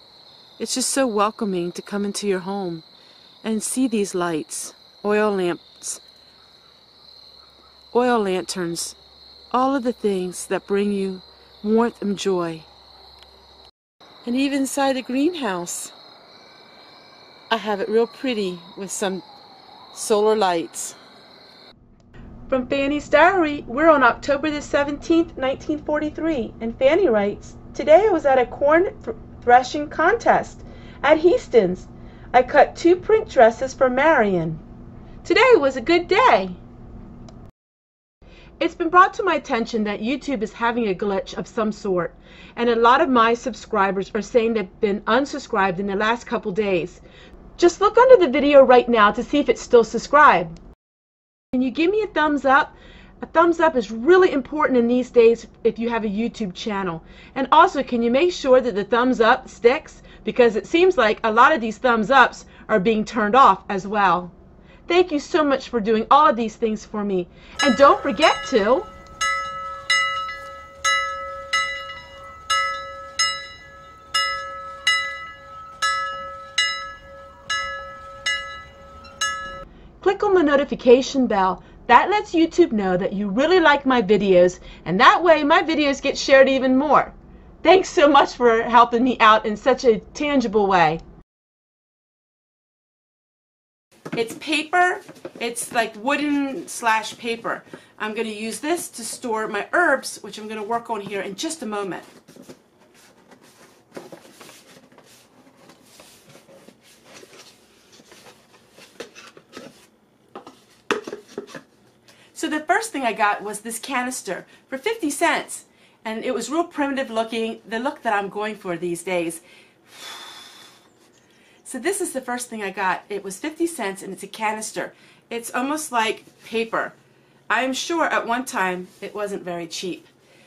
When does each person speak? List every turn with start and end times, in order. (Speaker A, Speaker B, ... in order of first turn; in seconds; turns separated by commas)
Speaker A: 0.6-2.8, Speaker A: 3.4-6.0, Speaker A: 7.9-9.0, Speaker A: 9.5-12.7, Speaker A: 14.2-15.9, Speaker A: 17.5-19.2, Speaker A: 19.9-21.0, Speaker A: 22.5-34.6, Speaker A: 35.2-36.6, Speaker A: 38.6-47.0, Speaker A: 47.6-50.5, Speaker A: 51.5-64.3, Speaker A: 64.9-68.9, Speaker A: 80.0-91.0, Speaker A: 94.1-102.1, Speaker A: 112.3-120.5, Speaker A: 121.6-127.0, Speaker A: 127.5-130.1